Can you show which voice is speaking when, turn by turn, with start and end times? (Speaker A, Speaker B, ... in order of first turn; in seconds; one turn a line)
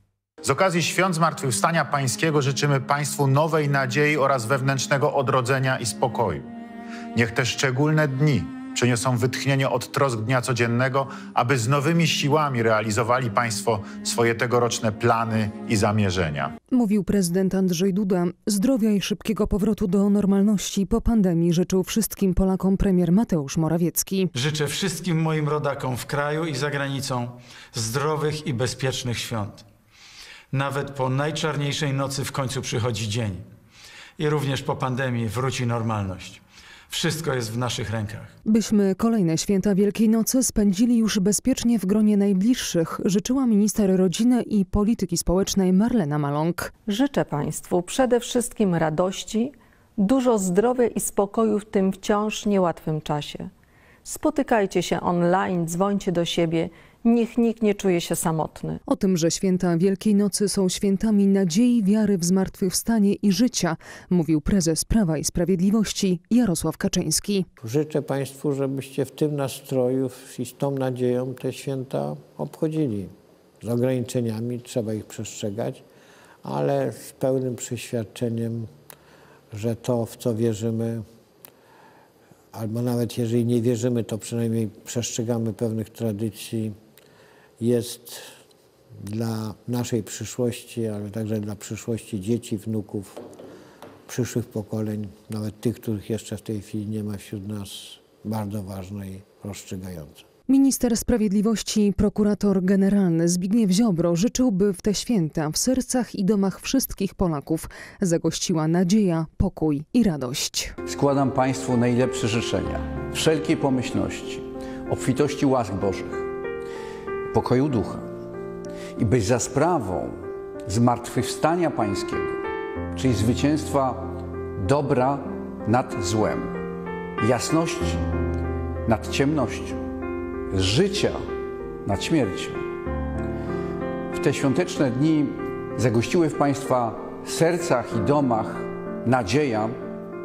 Speaker A: 0.4-6.5
Speaker A: 7.1-16.5
Speaker B: 16.7-24.3
Speaker C: 24.3-29.7
Speaker C: 30.5-33.5
Speaker C: 34.2-38.3
Speaker B: 38.5-46.7
Speaker D: 46.9-53.5
Speaker D: 54.0-58.8
Speaker B: 58.9-67.5
Speaker E: 67.6-75.8
Speaker E: 76.4-78.7
Speaker E: 79.5-81.0
Speaker E: 82.5-86.7
Speaker E: 87.6-88.3
Speaker E: 89.0-93.2
Speaker E: 94.1-100.2
Speaker B: 100.5-110.8
Speaker F: 110.9-116.3
Speaker F: 117.3-118.0
Speaker F: 119.0-122.4
Speaker F: 122.9-126.6
Speaker F: 127.2-128.1
Speaker F: 128.9-129.8
Speaker F: 130.5-131.2
Speaker F: 131.8-132.7
Speaker F: 134.1-139.8